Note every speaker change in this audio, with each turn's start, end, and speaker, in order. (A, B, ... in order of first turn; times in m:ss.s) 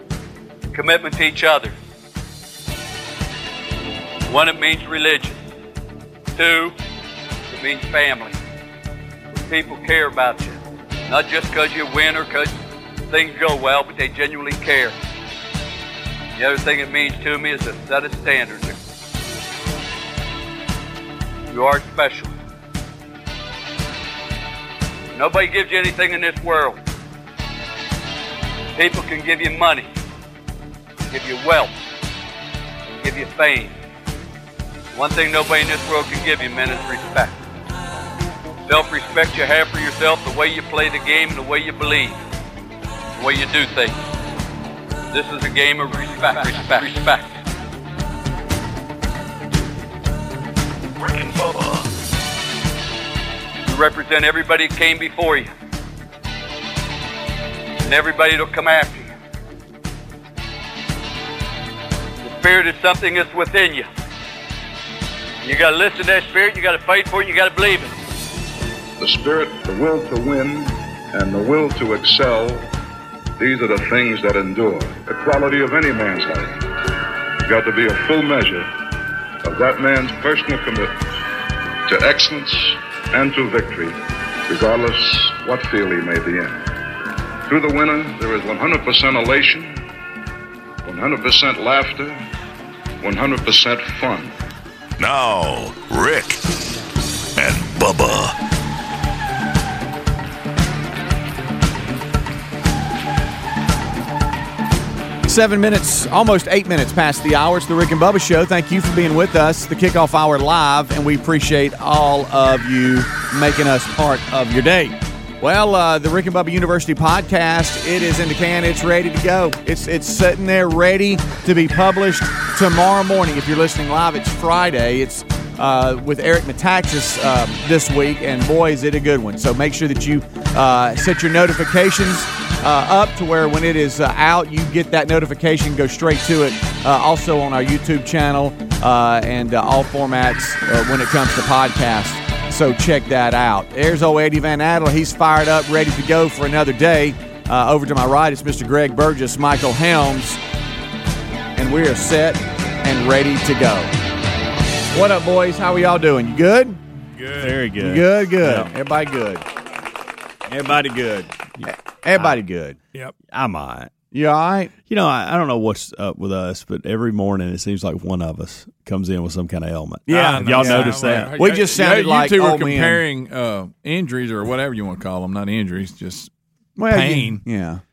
0:00.7-0:01.7 A
0:04.2-0:05.4 A
0:06.4-0:06.7 A
0:07.5-0:08.4 A
0:09.5-0:10.6 A
0:11.1-0:12.5 A
0:13.1-0:15.0 A
0:16.4-0:18.8 A
0:21.5-0:22.3 A
0:25.1-0:26.8 A
0:28.8-0:29.9 A
0:31.1-0:31.7 A
0:33.0-0:33.7 A
0:34.9-0:37.4 A
0:38.7-0:42.2 A
0:43.2-0:44.0 A
0:45.1-0:47.2 A
0:51.0-0:51.8 B
0:53.6-0:55.5 A
0:57.8-0:59.1 A
1:02.2-1:03.9 A
1:05.4-1:07.9 A
1:09.0-1:12.7 C
1:13.4-1:16.6 C
1:17.4-1:18.7 C
1:19.4-1:21.0 C
1:21.9-1:26.6 C
1:27.5-1:29.8 C
1:30.8-1:32.2 C
1:33.0-1:34.3 C
1:35.0-1:36.4 B
1:37.4-1:38.4 B
1:45.2-2:30.4 D
2:31.6-2:33.9 D
2:34.9-2:36.8 D
2:37.2-2:37.6 E
2:37.4-2:38.7 F
2:37.8-2:39.4 D
2:40.5-2:42.8 D
2:43.3-2:43.9 F
2:44.1-2:44.7 D
2:44.8-2:51.3 F
2:50.1-2:53.0 D
2:50.1-2:56.3 E
2:56.8-2:57.8 D
2:56.9-2:57.4 E